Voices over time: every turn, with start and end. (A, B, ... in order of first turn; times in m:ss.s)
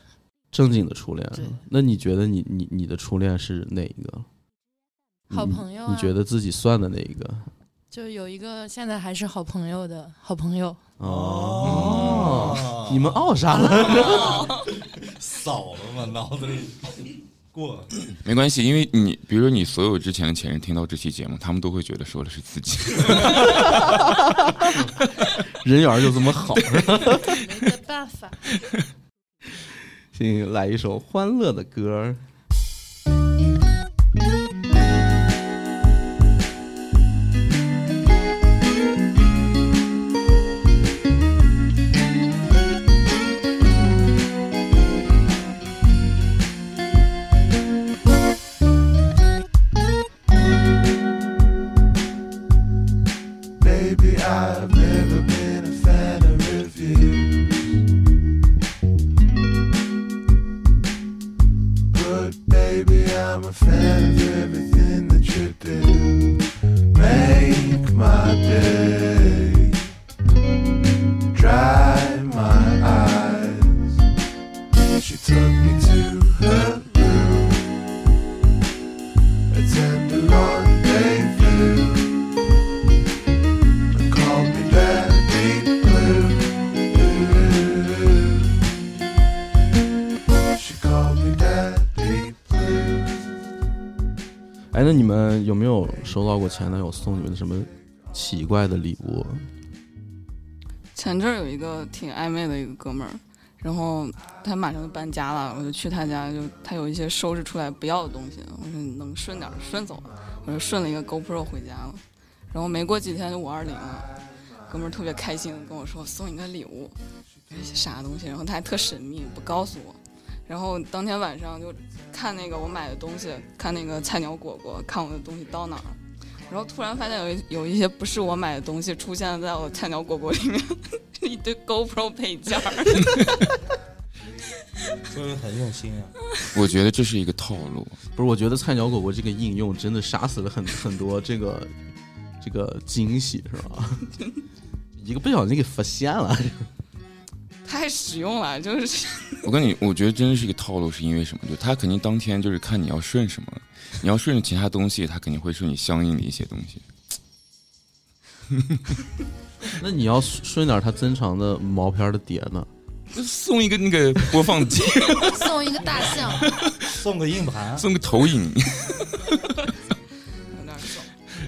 0:00.5-0:04.2 A
0:01.3-0:01.6 B
0:05.3-0:07.5 A
0:05.3-0:06.1 B
0:07.9-0:10.8 B
0:11.0-0:14.5 A
0:11.0-0:17.9 C
0:11.6-0:12.6 D
0:13.7-0:14.7 E
0:18.2-0:24.0 D
0:23.4-0:24.7 A
0:25.5-0:27.4 A
0:26.7-0:27.2 D
0:27.2-0:28.5 B
0:30.1-0:32.2 A
0:53.6-0:57.7 F
1:01.9-1:09.8 F
1:11.3-1:14.0 F
1:14.9-1:17.6 F
1:19.5-1:22.2 F
1:23.9-1:28.5 F
1:30.5-1:33.2 F
1:34.7-1:39.4 A
1:41.0-1:54.1 E
1:54.7-1:57.0 E
1:57.5-2:13.6 E
2:15.1-2:16.1 C
2:16.5-2:18.0 D
2:18.1-2:21.7 A
2:22.4-2:24.1 A
2:25.0-2:26.7 A
2:27.6-2:29.5 E
2:29.4-2:36.8 D
2:38.5-2:38.8 D
2:39.8-2:42.7 A
2:43.1-2:45.6 D
2:45.2-2:46.5 B
2:46.4-2:46.9 D
2:46.8-2:47.8 C
2:47.8-2:49.3 D
2:50.5-2:51.1 E